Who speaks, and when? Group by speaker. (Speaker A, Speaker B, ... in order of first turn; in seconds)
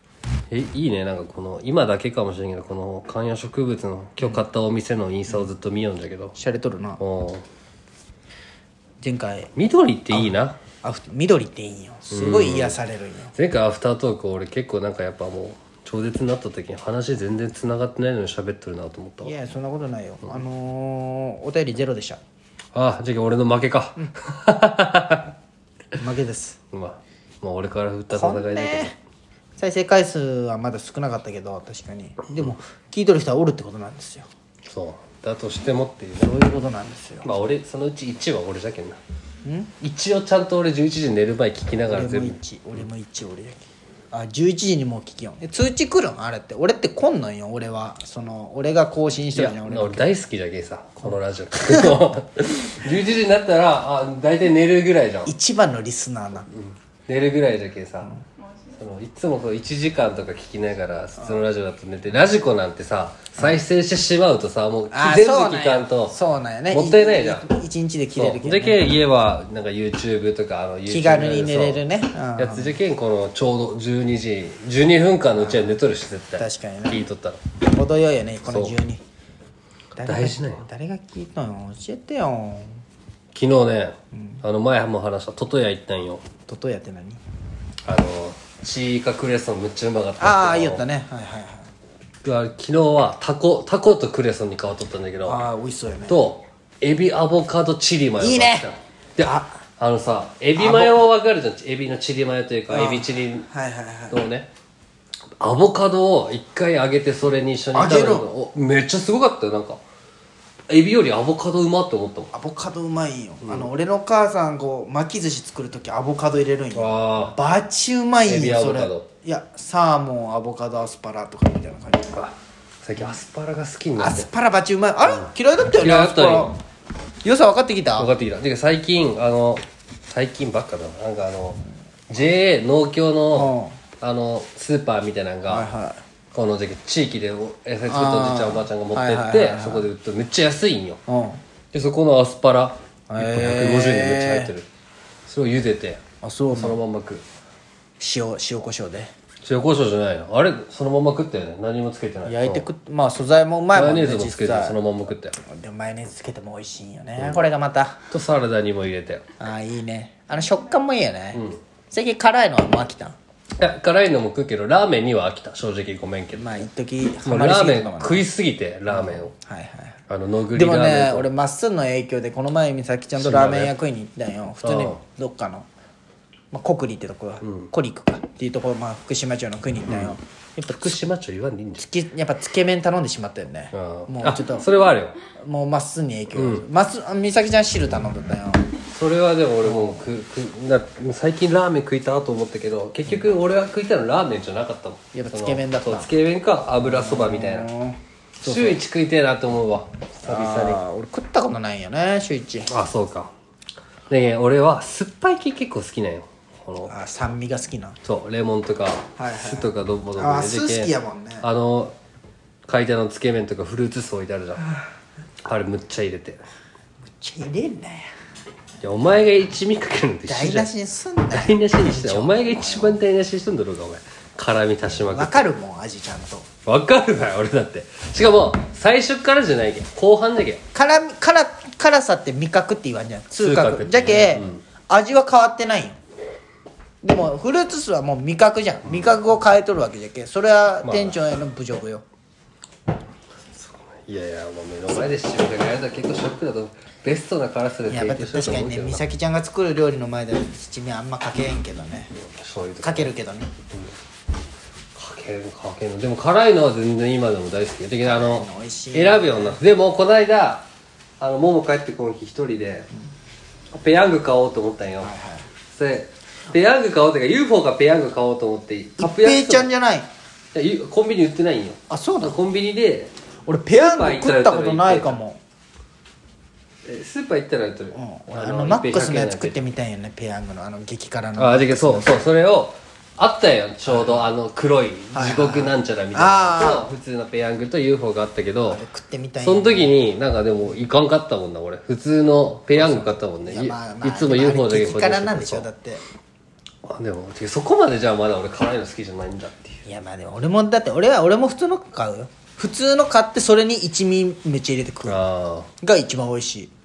Speaker A: 0.5-6.4, 7.0-7.5, 9.6-10.6, 12.1-12.8, 13.3-19.3, 22.7-25.4, 26.7-28.9, 34.7-36.4, 37.2-39.0, 39.8-42.4, 49.3-55.3, 56.5-58.1, 58.7-66.2, 66.7-67.5, 68.1-71.8, 72.4-77.4, 78.5-78.8, 80.0-80.7, 83.3-86.2, 87.9-90.8, 92.2-95.5, 96.1-103.5, 104.1-104.5, 105.4-109.8, 110.7-112.3, 116.7-117.4, 118.2-119.1, 122.8-124.3, 125.0-126.5, 128.0-135.7, 136.3-141.0, 141.7-144.7, 145.3-147.2, 149.4-152.7, 153.7-155.4, 157.2-157.5, 158.1-159.2, 161.3-161.6, 163.6-166.7, 167.2-169.3, 170.1-171.3, 173.2-173.7, 174.6-175.0, 177.4-177.7, 179.9-180.2, 180.7-181.9, 183.7-185.2, 186.3-186.7, 188.9-197.7, 198.4-200.8, 202.7-203.3, 204.1-206.9, 208.0-211.9, 212.7-214.6, 215.4-216.4, 218.8-220.7, 221.3-225.4, 226.7-230.6, 233.4-234.6, 238.9-239.3, 240.8-241.2, 243.5-249.0, 252.2-253.1, 254.9-260.7, 261.2-262.9, 263.7-265.1, 265.7-269.7, 270.5-273.1, 273.7-275.2, 276.9-279.7, 281.4-288.8, 289.4-295.7, 296.9-299.8, 305.1-305.7
Speaker B: 6.4-7.0, 9.0-9.5, 10.1-13.3, 19.2-22.2, 26.0-26.6, 28.1-29.0, 29.6-34.3, 36.2-37.3, 39.4-39.7, 41.9-50.1, 51.1-52.0, 55.3-56.5, 64.9-68.8, 70.9-72.8, 75.4-75.8, 76.4-77.0, 77.7-79.0, 80.0-82.8, 84.2-84.4, 86.5-87.2, 90.2-91.7, 95.2-96.3, 98.2-98.7, 99.2-99.6, 100.6-101.0, 102.7-104.2, 107.8-108.3, 112.3-122.3, 124.0-126.6, 127.2-128.1, 133.3-133.8, 135.5-136.0, 137.9-139.9, 141.1-141.4, 143.1-144.5, 146.2-146.8, 148.0-149.1, 152.3-154.8, 155.4-158.0, 159.4-163.2, 166.3-168.2, 168.9-170.0, 170.5-175.7, 176.5-181.1, 181.8-184.7, 185.4-188.7, 189.7-190.0, 195.1-196.1, 196.8-198.8, 200.2-202.7, 206.8-208.0, 209.2-211.5, 217.1-218.1, 220.3-223.0, 224.8-226.5, 230.7-236.0, 237.0-242.0, 247.9-252.2, 252.8-253.5, 258.0-259.6, 265.0-265.5, 269.0-270.1, 271.9-272.4, 273.5-275.4, 277.9-282.2, 283.9-284.3, 285.1-286.9, 288.7-290.0, 292.7-296.0, 299.9-305.2, 305.8-306.7